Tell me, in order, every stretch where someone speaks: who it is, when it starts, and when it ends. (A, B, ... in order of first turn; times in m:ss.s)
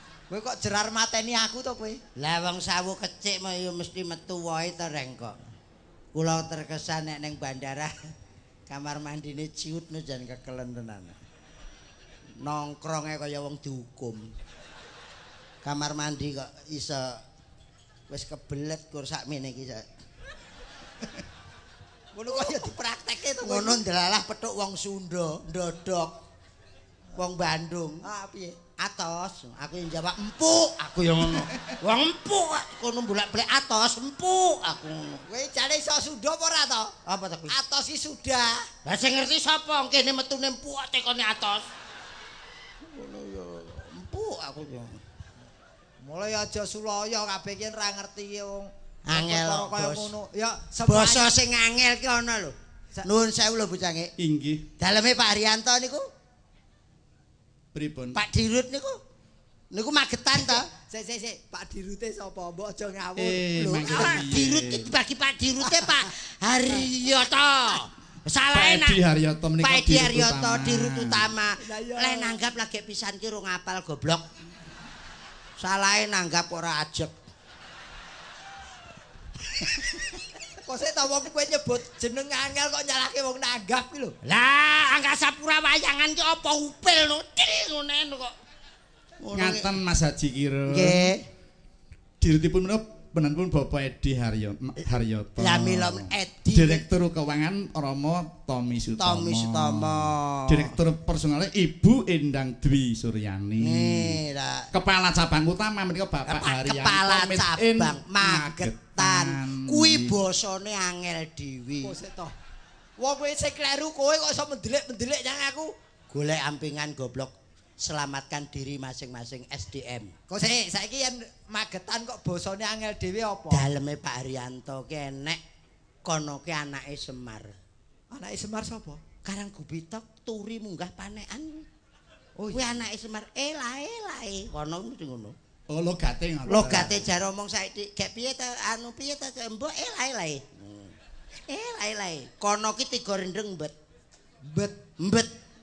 0:00.3-0:02.0 A
0:02.2-0:05.4 B
0:06.2-0:07.9 B
0:08.7-0:11.2 B
0:12.4-0:14.3 B
0:15.6-0:17.2 B
0:18.1-0:19.9 B
0:22.1-0:23.8 A
0:22.3-0:22.7 B
0:23.4-0:26.1 B
0:27.2-0:28.0 B
0:28.0-0:28.6 A
0:28.8-0:35.2 B
0:35.3-0:36.9 A
0:37.1-0:37.5 B
0:37.5-0:38.7 A
0:38.8-0:41.6 B
0:42.9-0:45.0 B
0:46.0-0:51.3 A
0:49.1-0:50.1 B
0:50.9-0:54.1 B
0:54.2-0:54.7 C
0:54.8-0:56.0 B
0:57.7-0:58.2 C
0:58.1-0:59.0 B
0:59.7-1:00.7 B
1:00.9-1:04.2 A
1:03.2-1:04.9 C
1:03.8-1:09.0 B
1:05.7-1:06.0 A
1:08.5-1:11.3 C
1:09.6-1:14.2 B
1:11.6-1:12.4 A
1:15.6-1:17.1 B
1:20.6-1:24.2 A
1:24.2-1:28.3 B
1:29.2-1:29.7 B
1:29.3-1:31.1 C
1:30.7-1:31.2 B
1:32.2-1:44.2 C
1:35.4-1:36.9 B
1:39.0-1:40.8 B
1:43.6-1:44.7 B
1:44.7-1:50.2 C
1:46.2-1:52.0 B
1:51.8-1:52.3 A
1:53.0-1:55.7 A
1:56.1-2:00.1 B
2:00.3-2:03.7 A
2:03.5-2:05.4 B
2:06.0-2:07.6 B
2:08.1-2:09.0 A
2:09.2-2:11.7 B
2:12.4-2:12.8 A
2:12.5-2:15.4 B
2:15.7-2:17.1 C
2:16.5-2:20.9 B
2:21.5-2:23.8 B
2:24.4-2:24.8 A
2:25.0-2:25.3 B